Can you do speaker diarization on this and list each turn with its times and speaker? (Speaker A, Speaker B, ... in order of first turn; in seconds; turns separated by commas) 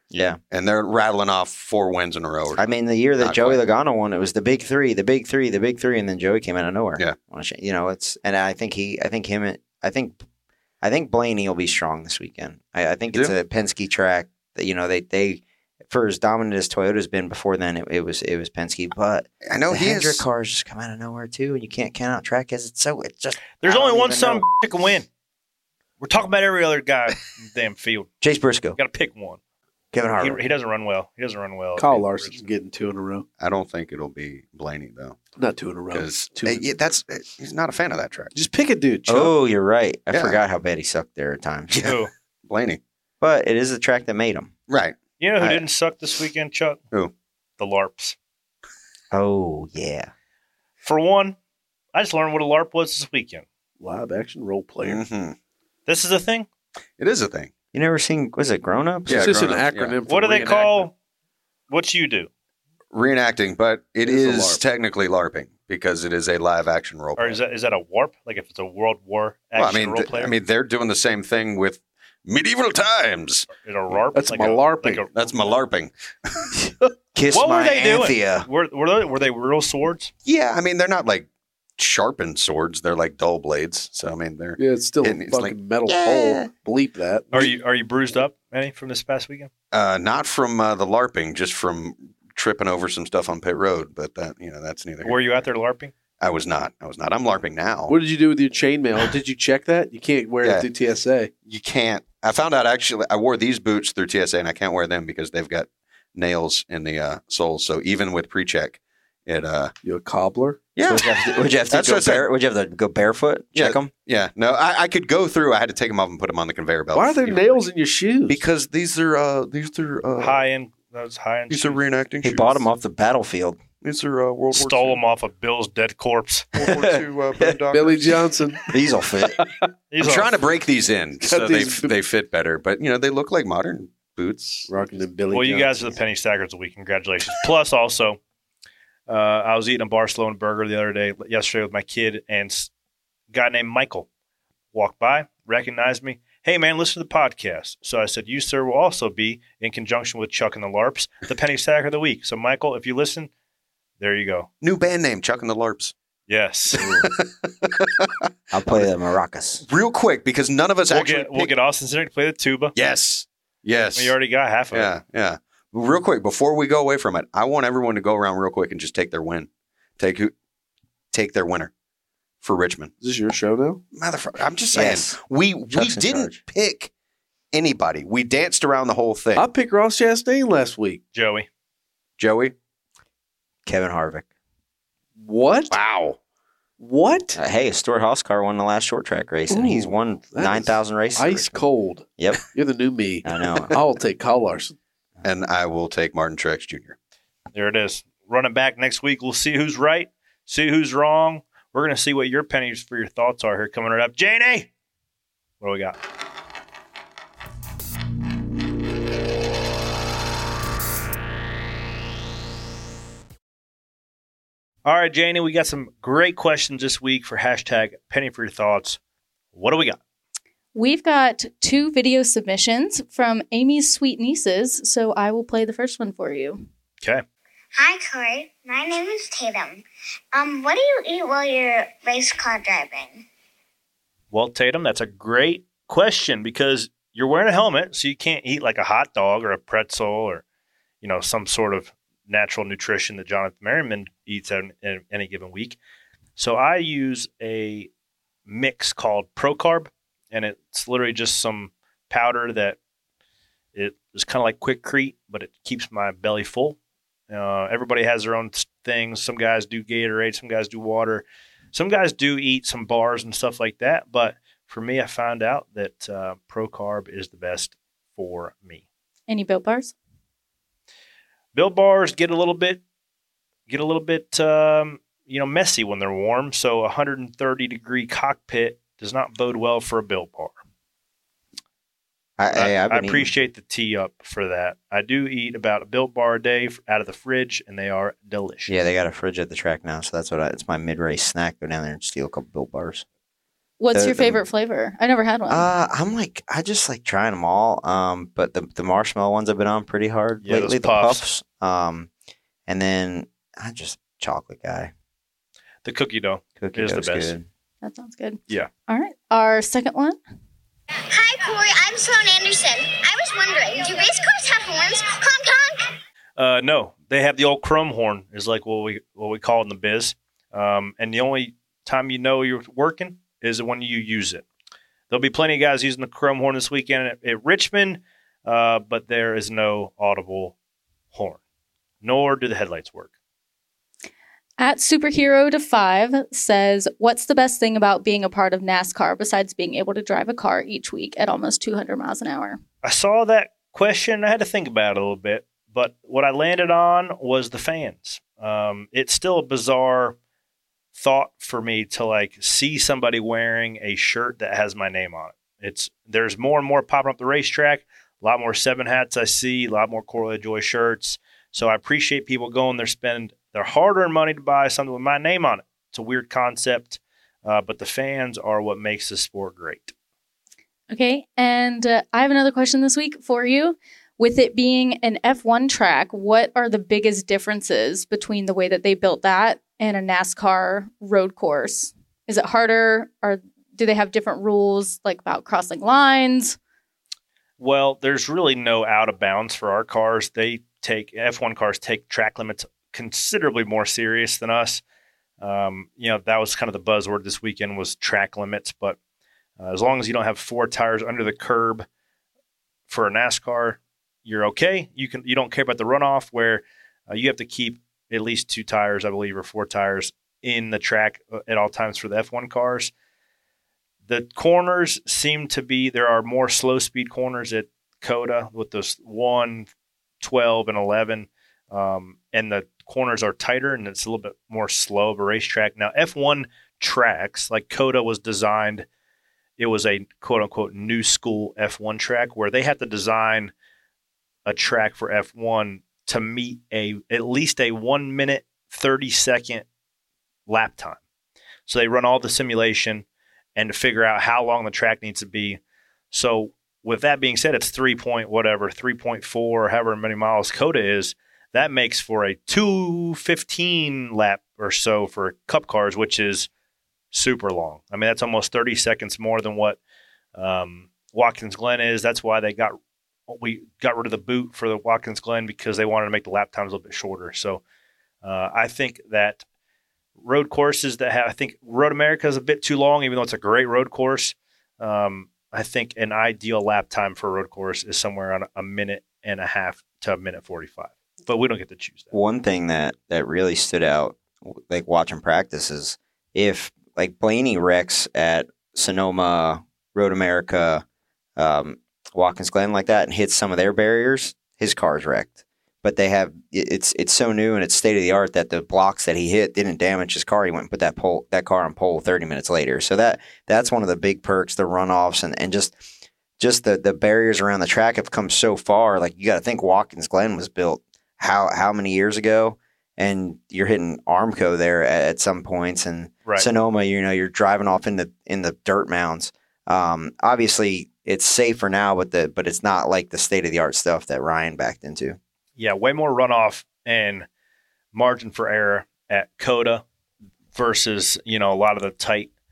Speaker A: 0.1-0.4, Speaker B: 0.5-2.6, Speaker A: 2.6-10.2, Speaker B: 3.2-3.6, Speaker A: 10.8-24.5, Speaker B: 19.4-20.2, Speaker C: 23.6-25.1, Speaker C: 26.0-28.1, Speaker A: 28.2-28.8, Speaker C: 28.8-29.4, Speaker A: 29.9-30.4, Speaker C: 30.2-32.5, Speaker D: 31.8-33.2, Speaker B: 33.4-35.2, Speaker D: 35.4-36.7, Speaker B: 35.9-38.3, Speaker D: 38.3-39.3, Speaker A: 39.1-41.9, Speaker B: 40.1-40.4, Speaker B: 41.7-42.8, Speaker C: 41.8-42.1, Speaker A: 43.2-44.5, Speaker B: 44.7-45.6, Speaker C: 45.2-46.8, Speaker C: 47.6-48.2, Speaker A: 49.1-50.1, Speaker C: 50.8-51.4, Speaker C: 51.9-53.5, Speaker D: 53.8-55.0, Speaker B: 54.8-55.4, Speaker C: 55.9-56.5, Speaker B: 57.0-57.5, Speaker A: 57.7-59.3, Speaker B: 59.1-60.0, Speaker D: 59.1-60.9, Speaker C: 60.1-60.9, Speaker C: 61.7-62.3, Speaker B: 62.9-67.4, Speaker D: 64.0-64.6, Speaker C: 67.2-70.3, Speaker B: 69.6-73.5, Speaker C: 73.6-75.3, Speaker D: 74.1-75.0, Speaker B: 75.2-75.9, Speaker A: 77.2-78.5, Speaker C: 77.3-80.1, Speaker B: 80.2-81.3, Speaker B: 81.8-85.6, Speaker D: 84.6-87.3, Speaker A: 85.9-86.5, Speaker C: 87.3-89.5, Speaker B: 89.7-95.4, Speaker C: 95.0-95.9, Speaker B: 96.2-97.9, Speaker D: 97.9-101.3, Speaker B: 101.5-109.7, Speaker D: 109.8-110.6, Speaker B: 110.8-112.3, Speaker A: 110.9-113.9, Speaker B: 113.5-117.6, Speaker D: 116.9-118.4, Speaker B: 118.3-120.4, Speaker C: 120.2-121.8, Speaker B: 121.5-122.7, Speaker A: 122.2-123.6, Speaker B: 123.8-125.0, Speaker C: 124.5-126.5, Speaker B: 126.5-128.3, Speaker A: 126.7-127.6, Speaker D: 127.7-128.7, Speaker A: 128.7-129.4, Speaker D: 129.4-129.7, Speaker C: 129.9-130.3, Speaker B: 130.0-134.7, Speaker D: 131.2-131.9, Speaker D: 134.7-135.9, Speaker C: 135.3-138.2, Speaker C: 139.1-142.7, Speaker C: 143.3-144.1, Speaker C: 144.7-153.3, Speaker C: 154.0-154.5, Speaker B: 154.6-155.9, Speaker C: 156.3-156.8, Speaker B: 156.8-158.1, Speaker A: 158.5-159.6, Speaker B: 159.7-161.5, Speaker C: 160.9-162.7, Speaker B: 162.8-164.2, Speaker C: 163.9-165.0, Speaker B: 164.7-169.5, Speaker B: 170.0-170.3, Speaker B: 171.1-171.7, Speaker B: 172.4-172.9, Speaker D: 173.0-173.8, Speaker B: 173.9-176.9, Speaker A: 174.7-176.4, Speaker B: 177.5-179.5, Speaker D: 179.4-181.0, Speaker C: 181.1-181.5, Speaker B: 182.2-182.6, Speaker A: 183.7-184.3, Speaker D: 185.2-185.8, Speaker B: 185.7-186.2, Speaker D: 186.8-187.4, Speaker A: 187.4-191.6, Speaker D: 189.5-194.8, Speaker A: 192.2-192.4, Speaker A: 193.2-193.7, Speaker B: 195.2-197.0, Speaker C: 197.5-204.7, Speaker C: 205.6-206.0, Speaker C: 214.8-219.0, Speaker C: 219.5-220.0, Speaker E: 220.7-226.6, Speaker F: 227.8-233.2, Speaker C: 234.3-240.4, Speaker C: 241.0-245.8, Speaker C: 246.4-247.9, Speaker C: 248.5-252.8, Speaker C: 253.7-256.8, Speaker C: 257.3-268.8, Speaker E: 269.3-269.9, Speaker C: 271.5-272.8, Speaker C: 273.7-280.6, Speaker A: 282.4-283.3, Speaker C: 282.5-288.7, Speaker A: 288.7-293.1, Speaker E: 293.8-295.7, Speaker A: 293.9-294.4, Speaker A: 295.5-302.1, Speaker C: 300.4-301.2, Speaker A: 302.7-304.9, Speaker C: 305.8-307.4, Speaker A: 306.6-307.5, Speaker E: 307.8-310.2, Speaker F: 311.1-315.9, Speaker C: 316.4-324.4, Speaker C: 325.1-330.6, Speaker C: 331.1-331.4, Speaker C: 332.0-333.1, Speaker E: 334.6-342.6, Speaker C: 342.8-350.2, Speaker C: 350.9-369.9, Speaker E: 370.9-386.6, Speaker C: 387.6-394.8, Speaker C: 395.4-399.0, Speaker C: 399.6-401.9, Speaker C: 402.9-412.9, Speaker C: 414.1-419.7, Speaker C: 420.2-428.9, Speaker C: 429.6-433.5, Speaker C: 434.5-439.7, Speaker C: 440.5-441.0, Speaker C: 441.7-445.6, Speaker C: 446.1-456.5, Speaker C: 457.1-459.8, Speaker C: 460.4-462.8, Speaker C: 463.3-467.6, Speaker C: 468.2-469.4, Speaker C: 470.2-482.1, Speaker A: 482.1-490.8, Speaker A: 491.4-505.8, Speaker A: 506.4-525.2, Speaker C: 525.6-527.3, Speaker C: 527.9-529.9, Speaker C: 530.5-532.3